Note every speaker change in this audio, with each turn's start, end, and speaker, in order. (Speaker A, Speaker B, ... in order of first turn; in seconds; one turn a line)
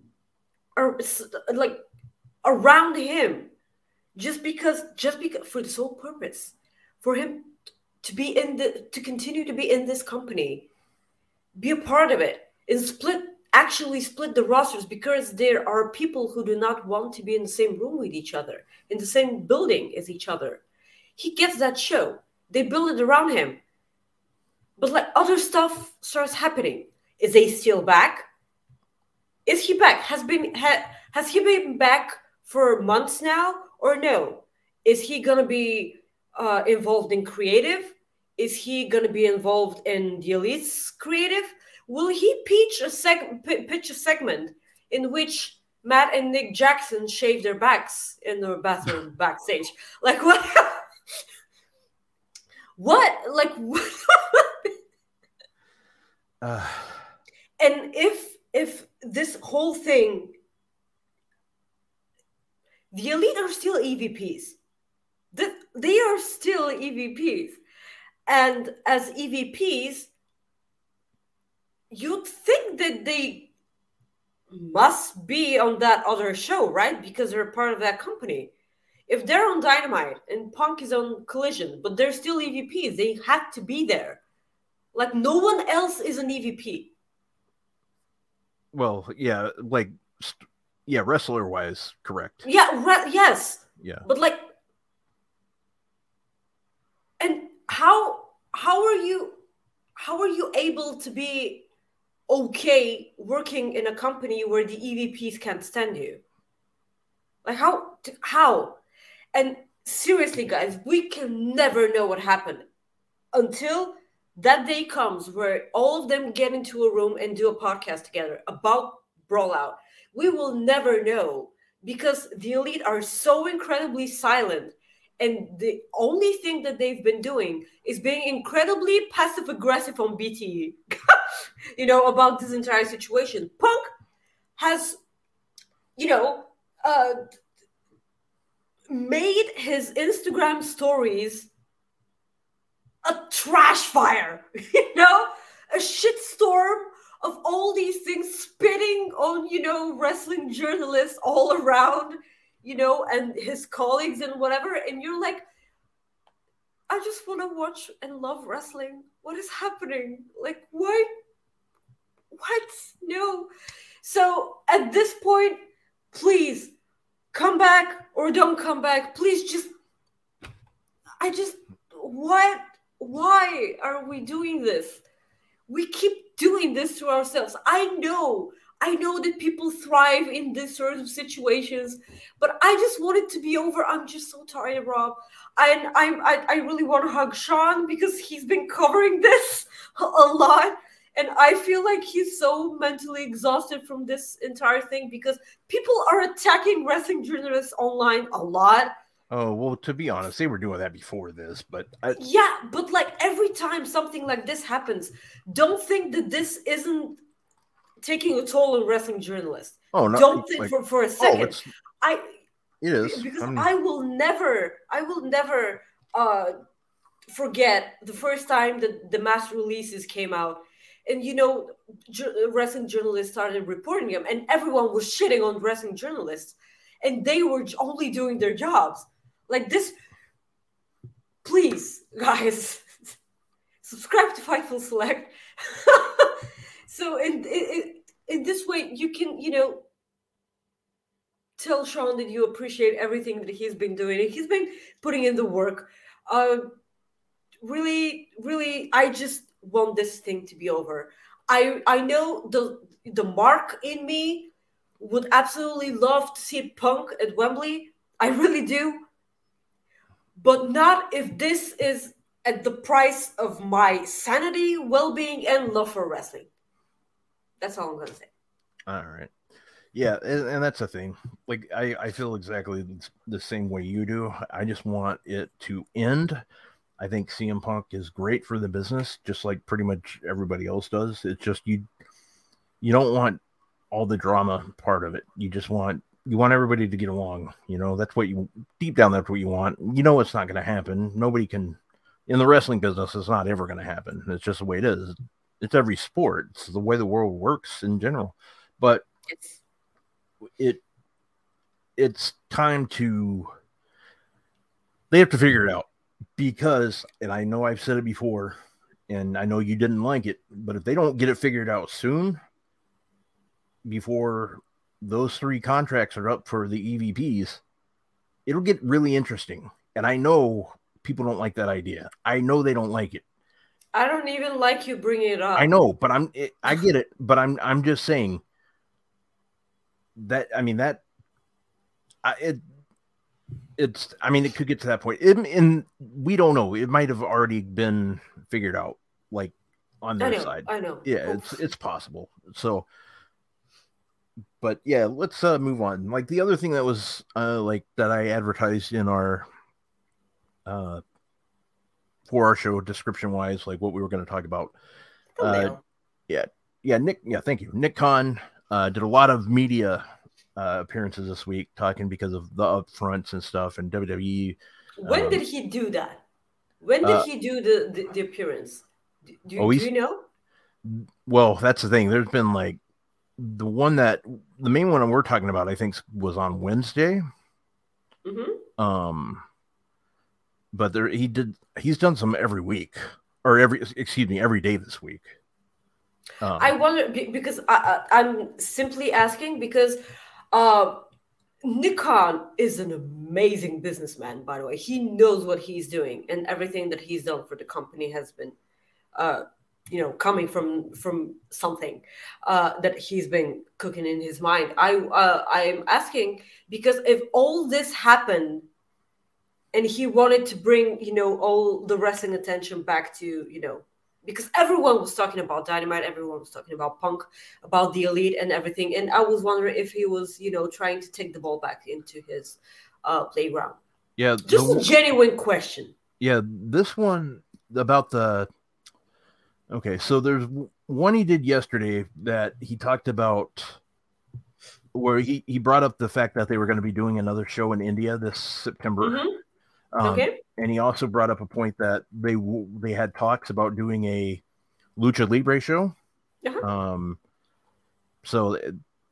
Speaker A: 0.8-1.8
Speaker A: 2.4-3.5
Speaker A: 4.2-7.5
Speaker A: 8.0-10.7
Speaker A: 11.6-20.6
Speaker A: 21.2-23.6
Speaker A: 24.8-28.3
Speaker A: 29.5-50.9
Speaker A: 52.8-54.7
Speaker B: 56.4-57.0
Speaker A: 57.6-60.3
Speaker A: 62.9-64.6
Speaker A: 65.3-67.6
Speaker A: 68.3-70.1
Speaker A: 71.9-73.5
Speaker A: 74.5-78.5
Speaker A: 79.1-84.2
Speaker A: 84.9-86.9
Speaker B: 88.7-92.4
Speaker A: 92.4-94.5
Speaker B: 93.8-94.0
Speaker A: 97.2-99.4
Speaker A: 100.0-101.7
Speaker A: 102.3-106.2
Speaker A: 107.5-108.8
Speaker A: 109.3-112.7
Speaker A: 113.3-133.9
Speaker A: 134.6-135.0
Speaker A: 136.0-137.2
Speaker A: 138.9-141.5
Speaker A: 143.0-155.4
Speaker A: 156.9-161.1
Speaker A: 162.3-163.5
Speaker A: 164.0-165.6
Speaker A: 166.1-166.7
Speaker A: 167.3-169.7
Speaker A: 171.2-175.0
Speaker A: 175.7-198.9
Speaker B: 199.3-202.2
Speaker A: 202.2-207.2
Speaker A: 208.0-212.3
Speaker B: 209.9-211.7
Speaker B: 212.8-213.7
Speaker A: 213.0-216.6
Speaker A: 217.3-229.9
Speaker A: 231.4-233.1
Speaker A: 233.8-236.4
Speaker A: 236.9-239.8
Speaker A: 241.6-246.7
Speaker A: 247.6-259.0
Speaker A: 260.4-266.5
Speaker A: 267.6-268.3
Speaker B: 268.9-269.3
Speaker B: 269.9-276.4
Speaker B: 277.0-281.9
Speaker B: 282.8-283.4
Speaker B: 283.9-299.1
Speaker A: 299.3-299.6
Speaker B: 302.0-303.5
Speaker B: 305.1-308.6
Speaker B: 309.1-312.4
Speaker B: 313.9-317.6
Speaker B: 318.5-323.2
Speaker A: 323.9-325.7
Speaker B: 325.6-328.4
Speaker B: 330.2-331.0
Speaker B: 332.2-332.6
Speaker B: 333.8-342.9
Speaker A: 340.2-341.6
Speaker B: 344.6-349.5
Speaker B: 350.7-351.0
Speaker B: 352.3-354.8
Speaker A: 355.4-355.8
Speaker B: 355.4-355.8
Speaker B: 356.3-365.4
Speaker A: 365.0-366.2
Speaker A: 366.8-368.8
Speaker A: 369.4-370.2
Speaker B: 369.6-369.9
Speaker B: 370.8-372.8
Speaker B: 373.4-377.2
Speaker A: 378.2-378.6
Speaker B: 378.8-379.4
Speaker B: 380.7-385.3
Speaker B: 386.4-386.7
Speaker A: 386.6-390.0
Speaker A: 390.5-391.0
Speaker A: 391.6-398.6
Speaker A: 399.1-408.7
Speaker A: 409.7-423.8
Speaker B: 424.2-424.9
Speaker A: 424.5-425.9
Speaker B: 426.2-428.5
Speaker B: 429.7-433.8
Speaker B: 434.9-439.2
Speaker A: 439.0-439.4
Speaker B: 439.9-444.4
Speaker A: 440.0-440.4
Speaker B: 445.0-445.9
Speaker B: 446.6-447.2
Speaker B: 448.2-448.8